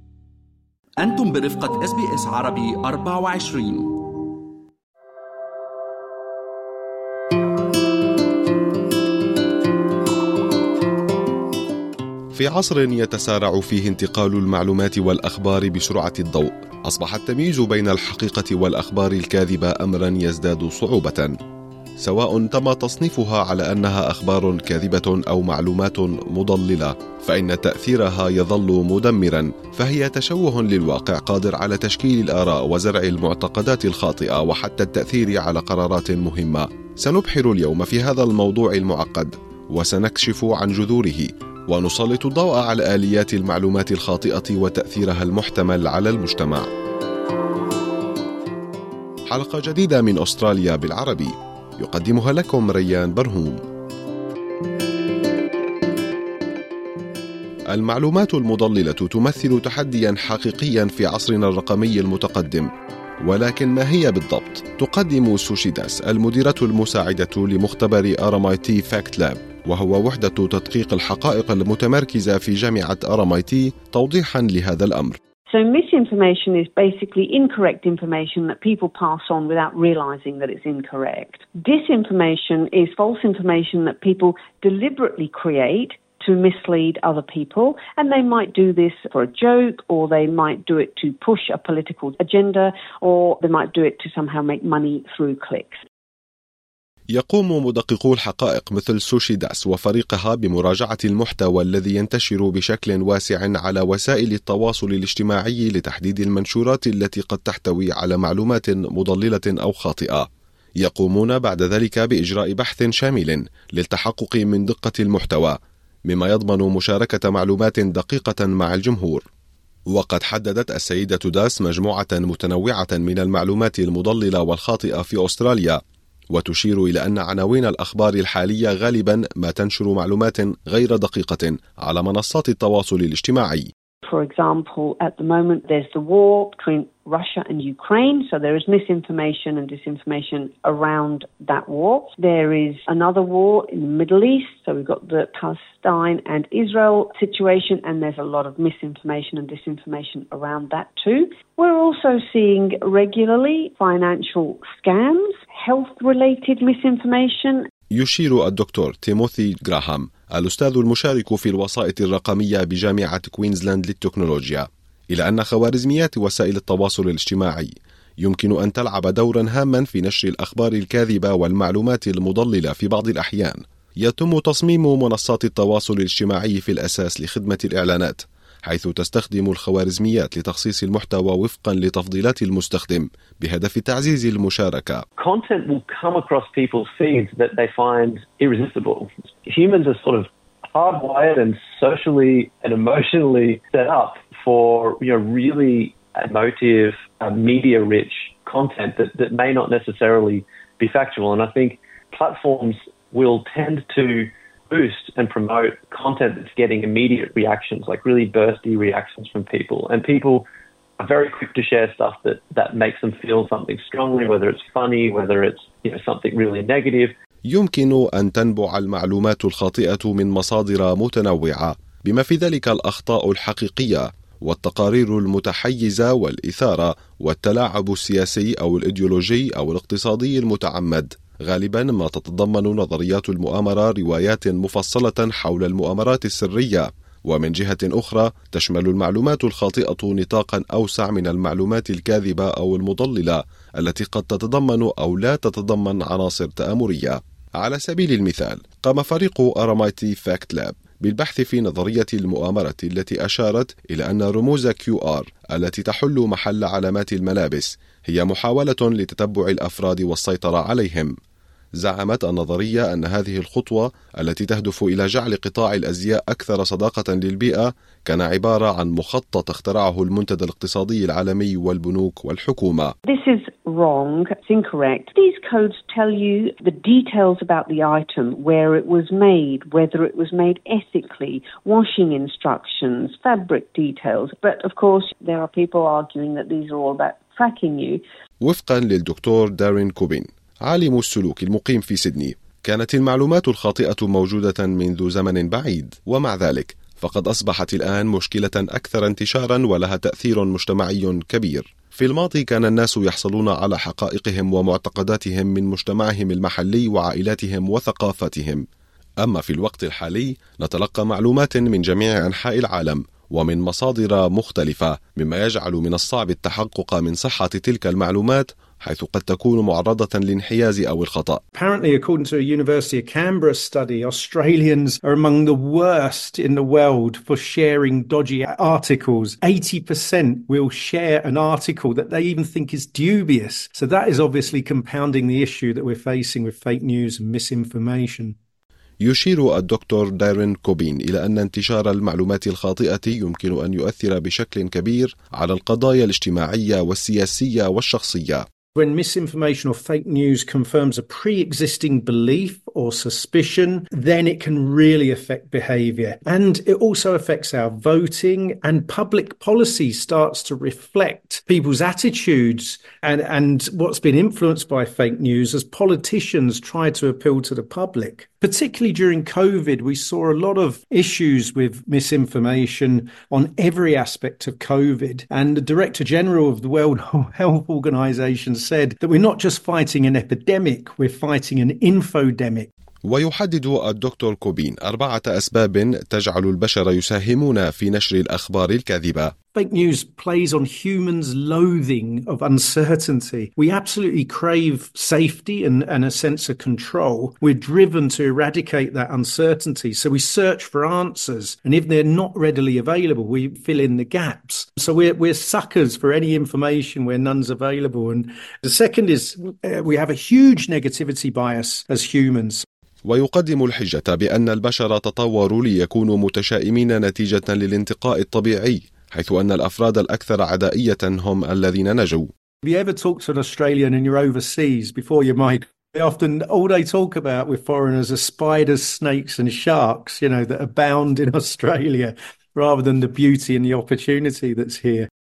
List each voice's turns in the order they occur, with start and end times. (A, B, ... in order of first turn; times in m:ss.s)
0:01.0-0:04.1 A
0:12.4-0:21.3 B
0:22.0-0:46.7 B
0:49.3-0:53.6 B
0:57.7-1:02.7 B
1:03.2-1:15.2 B
1:15.5-1:35.8 C
1:37.1-1:50.3 B
1:50.8-1:55.6 B
1:56.1-1:59.2 B
1:59.9-2:05.8 B
2:06.3-2:13.7 B
2:14.0-2:37.7 C
2:37.9-3:05.0 B
3:05.2-3:30.4 D
3:31.0-3:37.1 D
3:37.5-4:21.1 B
4:21.8-4:32.9 B
4:33.0-4:48.0 C
4:48.4-5:08.6 B
5:09.2-5:21.4 B
5:21.5-5:38.4 E
5:39.0-5:48.4 B
5:48.8-6:22.7 E
6:23.0-6:29.3 B
6:29.6-6:52.6 E
6:53.0-7:02.3 B
7:02.6-7:15.1 E